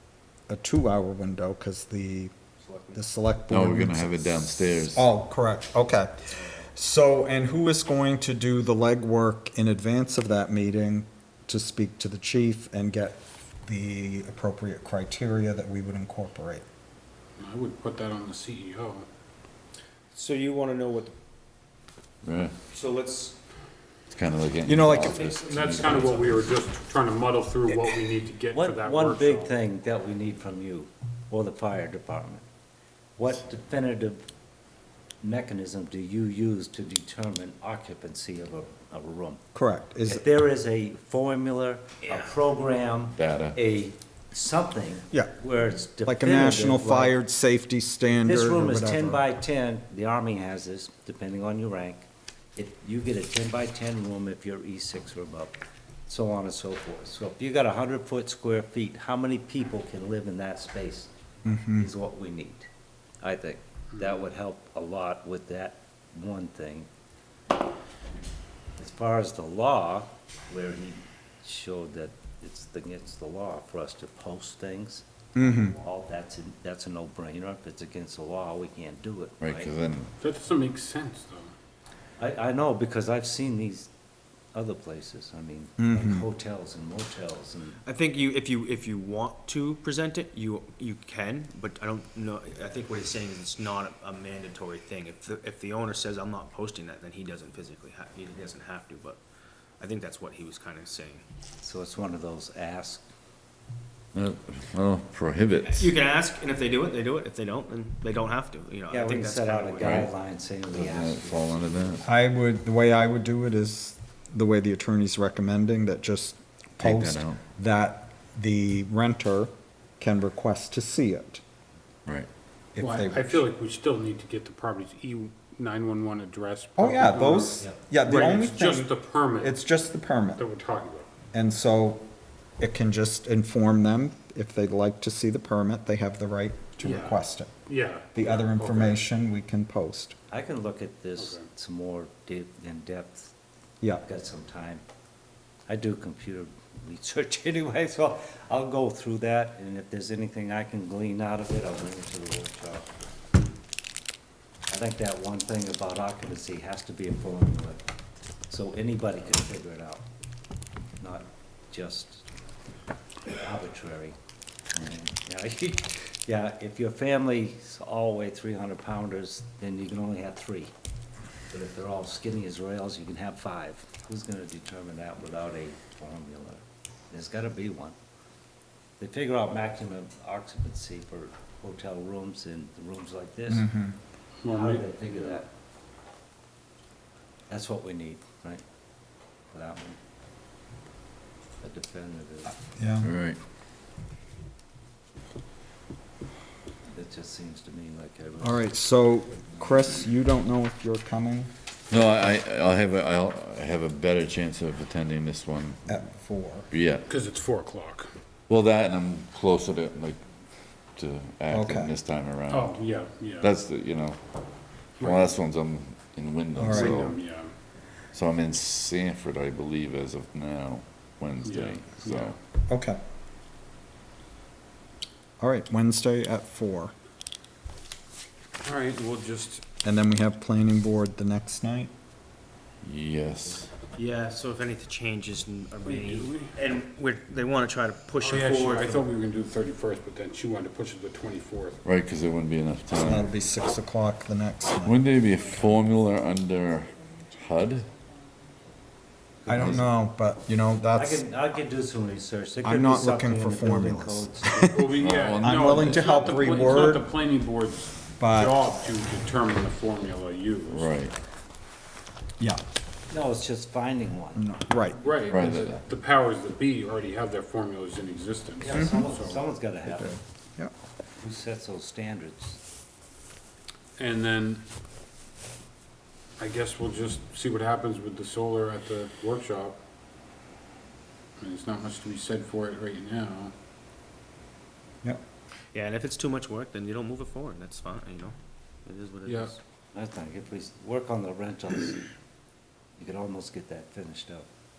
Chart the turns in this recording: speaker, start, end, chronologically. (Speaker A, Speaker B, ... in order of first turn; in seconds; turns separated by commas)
Speaker A: 0.5-2.3, Speaker A: 2.9-4.2, Speaker B: 3.5-5.1, Speaker A: 4.9-16.6, Speaker C: 17.4-19.1, Speaker D: 20.1-21.1, Speaker B: 22.2-22.5, Speaker D: 22.7-23.3, Speaker B: 24.1-26.1, Speaker A: 24.6-25.2, Speaker D: 24.9-26.4, Speaker C: 25.3-29.5, Speaker E: 28.5-32.5, Speaker E: 33.2-34.2, Speaker E: 35.2-39.4, Speaker A: 39.5-40.3, Speaker E: 40.0-47.2, Speaker D: 42.0-42.3, Speaker B: 43.2-43.6, Speaker A: 46.0-49.2, Speaker E: 48.1-61.1, Speaker A: 61.5-61.9, Speaker E: 61.7-62.7, Speaker E: 63.2-66.9, Speaker E: 68.8-79.7, Speaker A: 75.4-75.8, Speaker B: 79.4-80.1, Speaker C: 80.2-81.5, Speaker E: 82.2-83.9, Speaker E: 84.5-87.8, Speaker A: 85.8-86.3, Speaker D: 87.8-99.2, Speaker D: 99.8-101.2, Speaker E: 101.6-103.0, Speaker B: 104.1-106.0, Speaker D: 105.6-110.0, Speaker E: 108.9-112.1, Speaker B: 109.8-110.1, Speaker B: 110.7-112.0, Speaker A: 112.0-121.4, Speaker B: 116.8-117.4, Speaker A: 122.8-123.5, Speaker C: 122.8-129.6, Speaker A: 126.8-130.4, Speaker C: 130.3-131.1, Speaker A: 131.3-132.0, Speaker A: 132.6-137.5, Speaker C: 136.8-139.0, Speaker A: 138.1-140.2, Speaker E: 140.3-143.3, Speaker C: 141.2-141.4, Speaker E: 143.9-144.8, Speaker E: 145.7-152.9, Speaker E: 154.7-157.8, Speaker E: 158.5-160.0, Speaker E: 161.0-162.2, Speaker E: 163.3-164.2, Speaker E: 164.8-170.7, Speaker E: 171.5-177.9, Speaker E: 179.0-183.7, Speaker A: 183.5-183.9, Speaker C: 184.4-184.8, Speaker E: 184.4-185.5, Speaker E: 187.5-188.6, Speaker E: 189.5-190.0, Speaker E: 191.6-192.6, Speaker A: 192.6-193.1, Speaker B: 193.0-193.4, Speaker E: 196.9-198.8, Speaker A: 198.4-202.1, Speaker B: 201.9-206.0, Speaker A: 205.9-206.7, Speaker B: 206.7-207.1, Speaker C: 207.1-208.1, Speaker B: 208.5-210.2, Speaker B: 210.9-212.8, Speaker A: 211.5-211.9, Speaker C: 212.5-213.5, Speaker B: 213.4-214.2, Speaker B: 215.0-217.2, Speaker C: 215.0-215.4, Speaker A: 216.5-217.0, Speaker C: 216.7-217.5, Speaker B: 218.1-222.3, Speaker C: 221.4-222.4, Speaker A: 222.7-223.0, Speaker A: 225.4-226.9, Speaker C: 228.6-229.6, Speaker A: 229.8-231.9, Speaker B: 232.8-233.7, Speaker D: 233.9-239.1, Speaker C: 235.8-236.5, Speaker C: 238.2-241.8, Speaker B: 241.8-243.3, Speaker A: 243.0-245.0, Speaker B: 244.8-247.9, Speaker E: 249.4-249.9, Speaker A: 249.5-251.2, Speaker E: 250.9-254.6, Speaker A: 252.6-257.1, Speaker C: 254.6-260.9, Speaker B: 254.9-256.9, Speaker A: 258.2-258.6, Speaker B: 260.7-261.1, Speaker E: 263.1-264.5, Speaker A: 264.3-265.1, Speaker C: 265.0-269.4, Speaker B: 265.2-265.8, Speaker E: 268.6-270.2, Speaker A: 269.9-270.7, Speaker E: 271.2-272.6, Speaker C: 274.0-274.6, Speaker C: 276.4-279.8, Speaker C: 281.4-283.5, Speaker D: 285.7-289.6, Speaker C: 289.2-289.5, Speaker E: 289.9-292.0, Speaker E: 293.0-294.5